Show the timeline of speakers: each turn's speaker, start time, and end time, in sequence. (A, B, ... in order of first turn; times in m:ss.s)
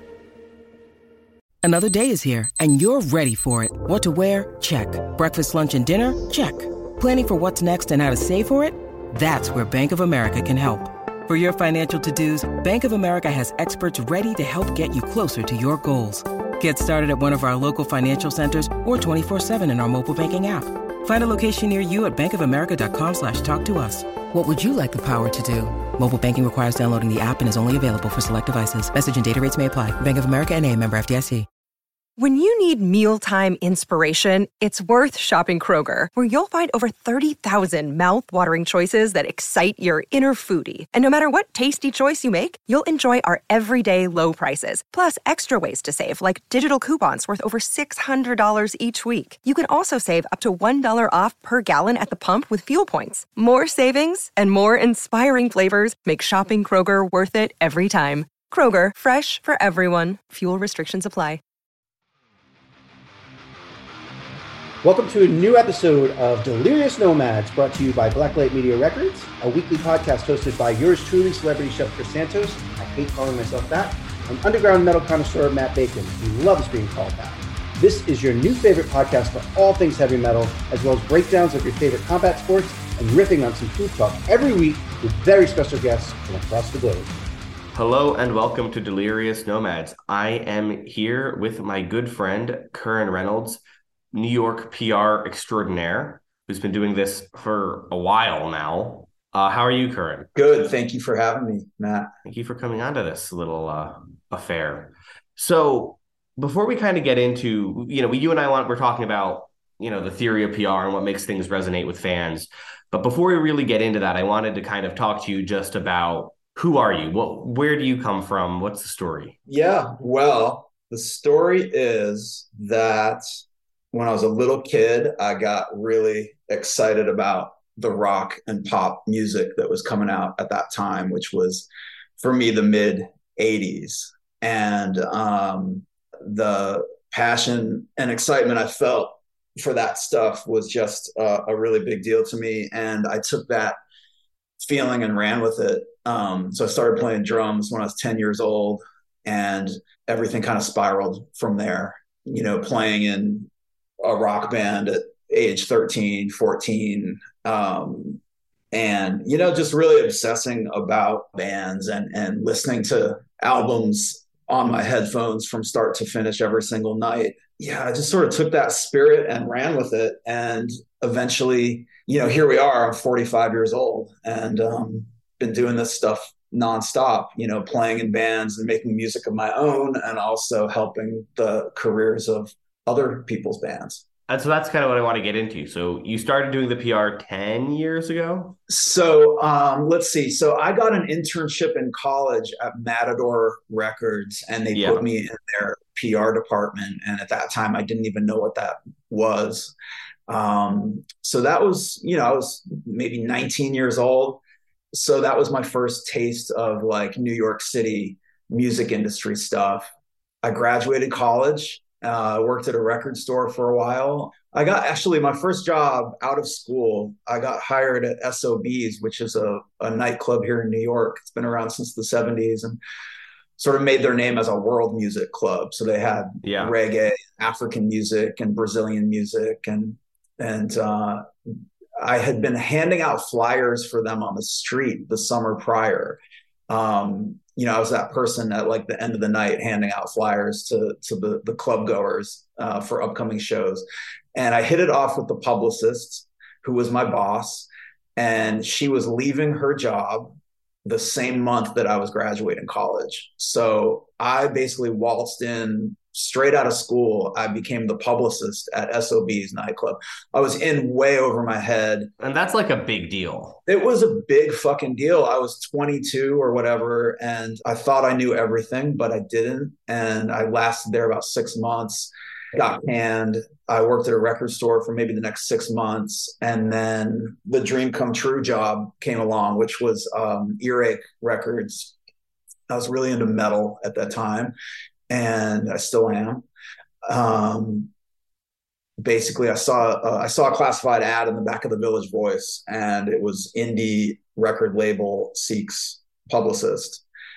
0:01.6-0:31.5 A
0:32.2-1:01.4 B
1:04.8-1:27.1 C
1:27.7-1:33.6 D
1:34.1-1:40.3 D
1:40.4-1:42.1 E
1:42.3-1:59.4 D
1:59.5-2:03.2 E
2:03.9-2:11.7 E
2:12.2-2:23.8 E
2:24.6-2:33.5 E
2:34.0-2:38.2 E
2:38.7-3:04.0 E
3:04.3-3:08.6 D
3:08.7-3:19.7 E
3:14.7-3:15.0 D
3:20.3-3:29.9 E
3:30.4-3:42.8 E
3:43.6-3:51.3 E
3:46.4-3:46.8 D
3:52.0-4:22.1 E
4:22.2-4:23.6 D
4:23.7-4:42.0 E
4:42.7-4:44.6 E
4:45.1-4:46.5 E
4:47.0-4:47.9 E
4:49.0-4:57.0 E